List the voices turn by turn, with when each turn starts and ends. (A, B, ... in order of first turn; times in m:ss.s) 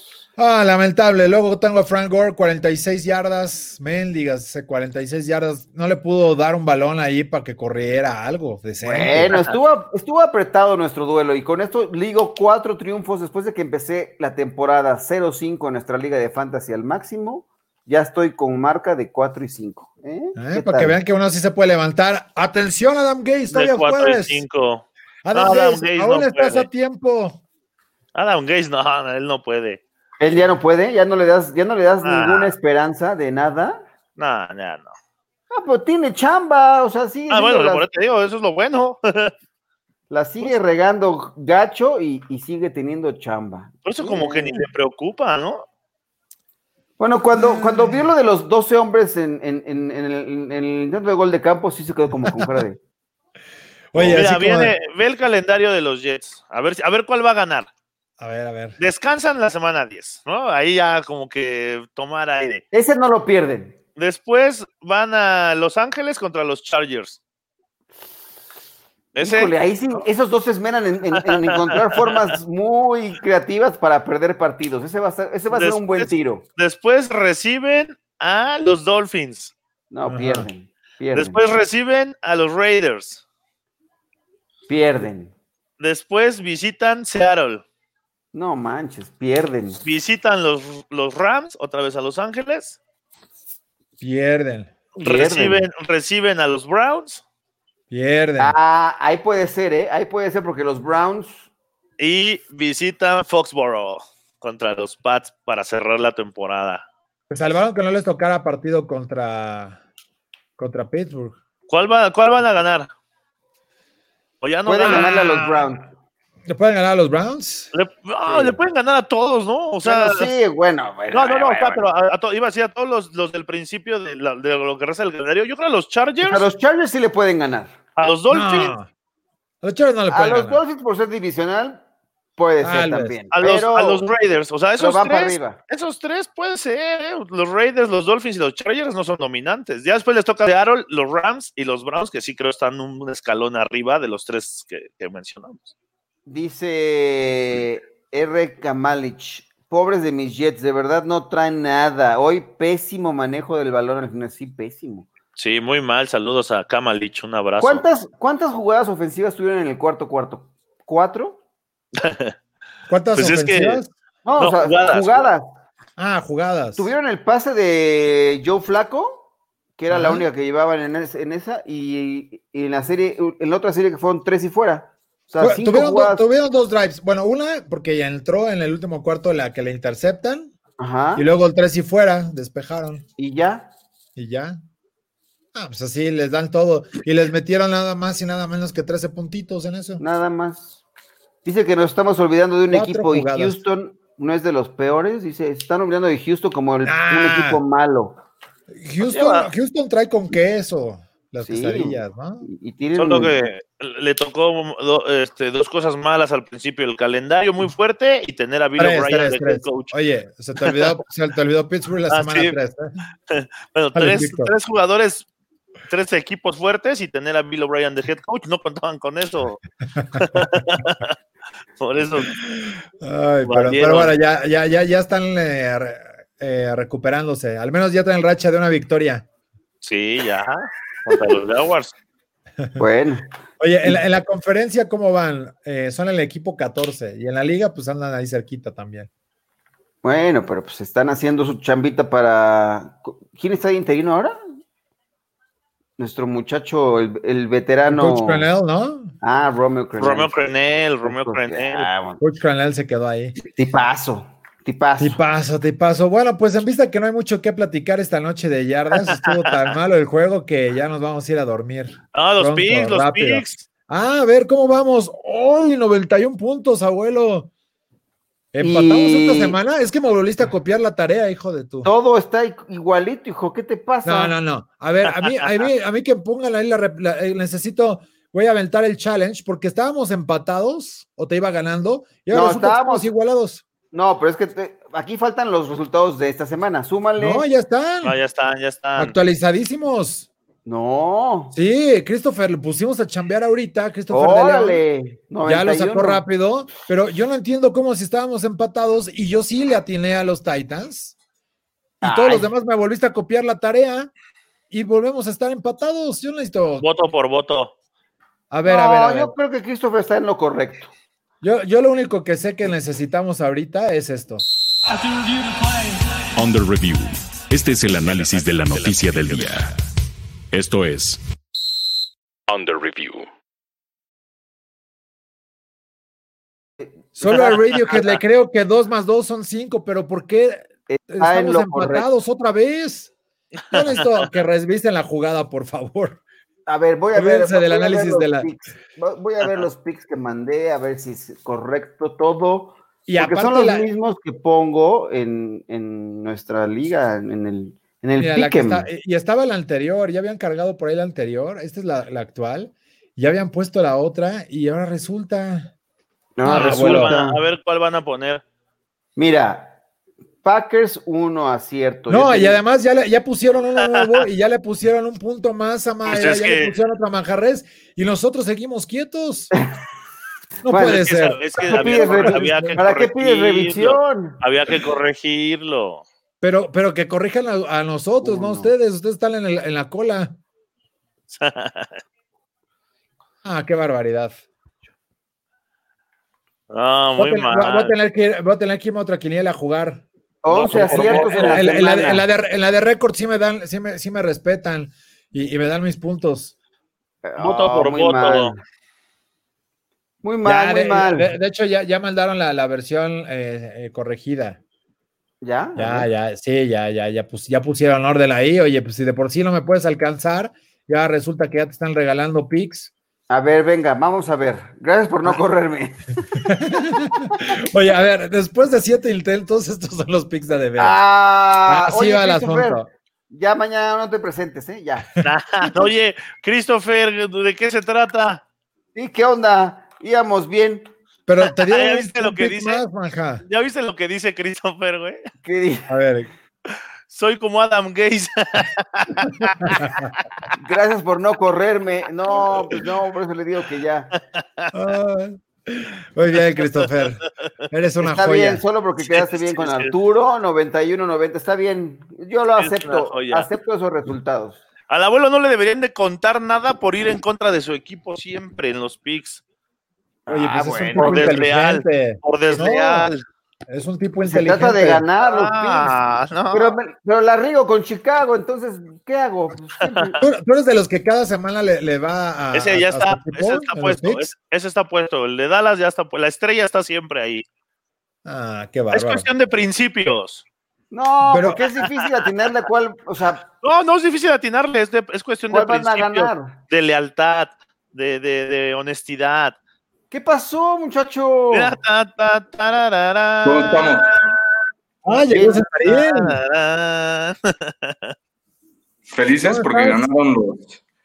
0:00.4-0:09.4 A
0:08.8-0:21.0 B
0:20.4-0:24.4 A
0:23.5-0:26.7 C
0:25.2-0:27.4 A
0:28.2-0:29.8 C
0:30.2-0:33.8 B
0:32.0-0:32.6 C
0:34.2-0:34.9 C
0:35.5-0:37.8 B
0:37.3-0:39.3 C
0:40.1-0:44.7 B
0:43.8-0:45.7 C
0:47.0-0:52.8 B
0:47.4-0:48.1 A
0:53.9-0:54.8 A
0:54.1-0:57.7 C
0:58.2-0:58.8 A
0:58.8-1:02.6 C
1:02.7-1:03.8 B
1:04.0-1:07.2 C
1:09.2-1:09.5 C
1:09.2-1:16.4 B
1:11.2-1:12.2 C
1:15.5-1:19.5 C
1:19.9-1:21.4 B
1:20.1-1:20.5 A
1:21.2-1:23.2 C
1:24.7-1:25.3 B
1:25.8-1:27.6 C
1:28.3-1:29.8 B
1:29.8-1:32.8 C
1:34.0-1:34.7 A
1:35.0-1:37.2 C
1:35.0-1:35.7 B
1:37.9-1:38.6 A
1:38.4-1:41.5 B
1:42.0-1:46.8 C
1:47.3-1:49.8 A
1:50.6-1:51.4 A
1:51.7-1:52.9 C
1:54.4-1:55.3 C
1:54.7-1:55.9 B
1:54.8-1:55.8 A
1:56.5-1:57.7 A
1:57.7-2:00.3 C
1:58.3-1:58.6 B
1:59.8-2:01.8 B
2:01.1-2:06.4 C
2:06.2-2:07.8 B
2:08.0-2:08.7 C
2:08.3-2:08.9 A
2:09.6-2:10.6 A
2:10.1-2:11.8 B
2:12.4-2:14.0 B
2:12.6-2:13.2 A
2:13.3-2:25.7 C
2:14.8-2:15.6 B
2:26.3-2:35.1 B
2:35.4-2:37.8 C
2:37.6-2:41.4 B
2:42.0-2:42.3 C
2:42.9-2:43.9 A
2:43.1-2:43.8 C
2:44.2-2:45.5 B
2:44.4-2:45.3 C
2:46.0-2:46.9 A
2:46.8-2:56.2 B
2:49.9-2:50.3 A
2:55.4-3:00.5 A
3:00.8-3:01.3 B
3:01.2-3:03.0 A
3:03.2-3:03.7 B
3:04.2-3:04.6 A
3:05.5-3:10.0 A
3:10.0-3:10.8 B
3:11.4-3:18.2 B
3:12.7-3:13.6 A
3:16.9-3:17.6 A
3:18.7-3:22.4 A
3:19.0-3:19.5 C
3:21.4-3:23.4 B
3:23.0-3:29.9 C
3:28.8-3:32.9 A
3:30.6-3:30.8 C
3:32.1-3:32.6 C
3:33.3-3:35.3 C
3:34.0-3:34.5 A
3:35.9-3:39.6 C
3:40.1-3:41.1 C
3:41.8-3:42.4 C
3:42.3-3:49.2 A
3:43.4-3:44.1 C
3:49.8-3:51.9 C
3:52.8-3:53.3 B
3:53.6-3:59.1 A
4:00.0-4:04.4 B
4:06.0-4:08.5 B
4:07.9-4:09.1 A
4:09.2-4:10.3 B
4:10.0-4:11.9 C
4:11.0-4:12.2 B
4:12.2-4:13.4 A
4:13.4-4:15.2 B
4:15.0-4:27.5 A
4:22.2-4:23.6 C
4:28.5-4:31.9 A
4:28.6-4:29.6 B
4:31.8-4:34.3 B
4:34.0-4:43.6 A
4:42.3-4:43.1 B
4:43.9-4:47.5 B
4:47.2-4:48.2 A
4:48.0-4:49.2 C
4:49.0-4:50.3 A
4:50.7-4:51.6 B
4:51.5-4:54.8 A
4:54.1-4:56.2 B
4:55.4-5:01.2 A
5:02.0-5:02.5 B
5:02.0-5:04.1 A
5:04.7-5:06.8 A
5:06.8-5:07.7 C
5:08.5-5:09.3 A
5:08.6-5:10.9 B
5:11.4-5:14.4 A
5:16.4-5:19.7 D
5:20.5-5:21.2 D
5:22.5-5:23.3 D
5:27.2-5:33.1 A
5:27.2-5:27.6 B
5:30.9-5:32.1 B
5:33.7-5:34.3 C
5:33.7-5:36.2 A
5:36.7-5:48.9 B
5:37.2-5:38.5 A
5:43.1-5:43.9 A
5:48.2-5:55.7 A
5:56.4-5:57.4 B
5:56.4-5:57.2 A
5:56.5-5:58.4 C
5:59.2-5:59.8 B
6:00.4-6:02.6 B
6:02.1-6:09.5 A
6:06.1-6:06.8 C
6:10.6-6:12.8 A
6:10.7-6:14.4 B
6:10.8-6:16.0 C
6:16.4-6:20.4 A
6:18.2-6:18.7 B
6:21.3-6:22.0 C
6:23.4-6:24.4 A
6:26.7-6:27.9 C
6:27.2-6:30.0 A
6:30.4-6:32.2 B
6:30.5-6:31.8 C
6:30.7-6:36.5 A
6:37.2-6:38.6 B
6:37.4-6:38.5 C
6:40.2-6:41.3 B
6:40.4-6:44.6 A
6:45.4-6:46.1 B
6:45.8-6:52.9 A
6:53.3-6:56.2 B
6:56.4-7:01.0 A
7:00.8-7:05.1 B
7:01.7-7:02.9 A
7:05.2-7:08.4 C
7:09.0-7:10.9 B
7:11.3-7:13.4 A
7:11.4-7:12.8 C
7:13.4-7:15.2 C
7:15.4-7:15.9 B
7:15.9-7:16.3 A
7:17.1-7:19.9 C
7:19.4-7:20.1 A
7:20.5-7:24.1 B
7:22.5-7:22.8 C
7:24.4-7:24.7 C
7:24.7-7:28.6 A
7:28.1-7:34.6 B
7:29.1-7:29.9 C
7:32.6-7:33.5 C
7:34.9-7:39.4 C
7:40.3-7:41.4 B
7:40.3-7:43.1 A
7:41.0-7:43.2 C
7:43.7-7:45.0 A
7:44.2-7:46.0 B
7:45.2-7:46.8 C
7:46.5-7:50.2 B
7:49.8-7:50.1 C
7:50.2-7:54.3 A
7:52.5-7:57.4 C
7:58.2-7:59.3 A
7:58.9-8:00.4 C
8:00.9-8:03.5 B
8:01.3-8:01.6 A
8:03.6-8:09.6 C
8:05.5-8:06.6 B
8:10.1-8:11.8 B
8:11.5-8:14.0 C
8:13.4-8:14.1 E
8:15.0-8:16.4 A
8:15.3-8:15.6 B
8:15.8-8:18.1 C
8:19.1-8:20.8 E
8:19.4-8:20.1 A